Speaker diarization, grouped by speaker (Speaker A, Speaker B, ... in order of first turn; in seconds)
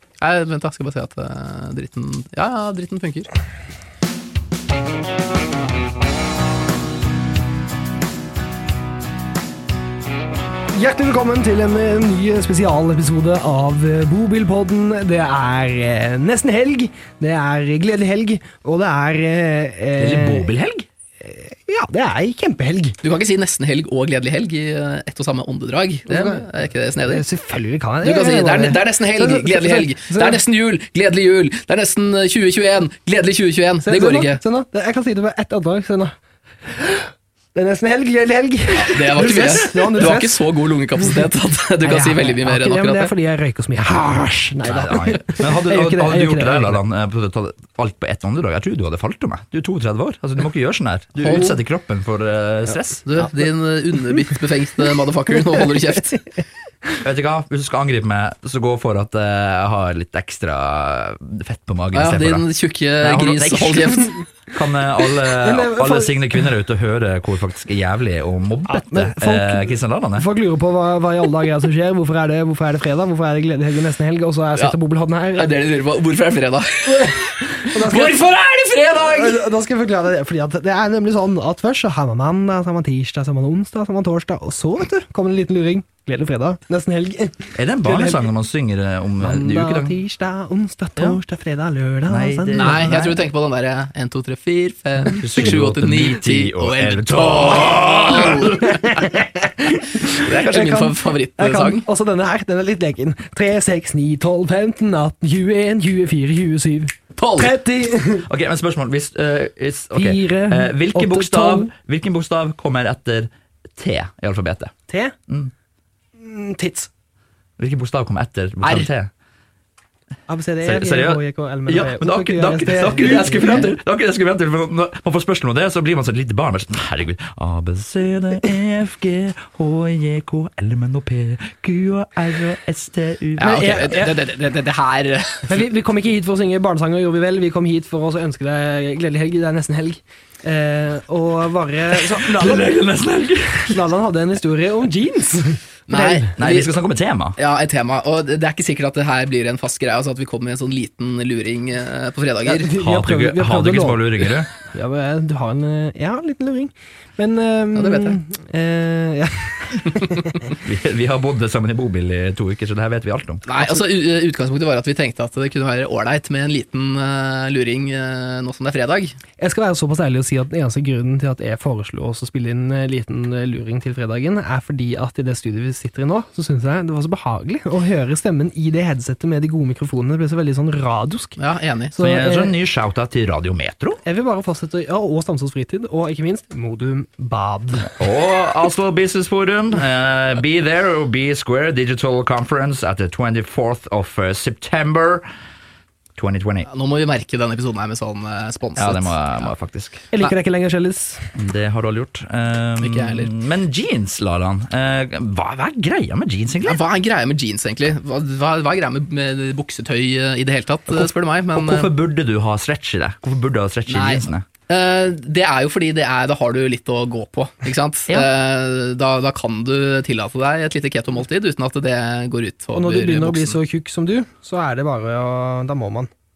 Speaker A: 0.2-3.3, 23.0-27.2, 28.0-34.4, 38.8-43.1, 51.2-51.6, 53.0-56.2, 61.9-64.2, 75.3-79.4, 92.5-98.7, 100.0-101.8, 107.2-107.5, 118.6-118.9, 123.3-123.7, 133.4-135.6, 145.9-146.7, 147.3-152.7, 157.8-158.2, 163.4-169.2, 181.4-182.0, 196.7-199.5, 202.8-203.3, 206.6-211.9, 213.9-223.6
Speaker B: 10.7-20.5, 21.2-23.0, 26.1-26.5, 27.1-30.4, 33.8-36.1, 36.7-40.4, 41.8-46.8, 65.3-66.4, 68.7-75.5, 76.9-78.2, 78.9-88.3, 89.2-92.9, 98.6-108.2, 109.9-111.7, 114.9-115.1, 116.2-116.9, 120.3-123.7, 133.4-134.1, 135.5-142.7, 143.7-146.3, 152.4-160.4, 169.4-181.4, 181.9-182.5, 184.0-187.9, 200.1-201.3, 222.7-226.1
Speaker C: 20.0-20.9, 44.6-53.0, 57.0-70.3, 87.5-90.0, 92.1-93.2, 95.0-98.9, 108.2-114.7, 117.6-119.1, 120.6-133.9, 141.9-143.8, 146.3-147.4, 152.7-154.5, 160.6-163.4, 182.0-184.0, 188.0-195.2, 196.2-196.7, 198.8-200.1, 201.3-206.8, 210.9-214.4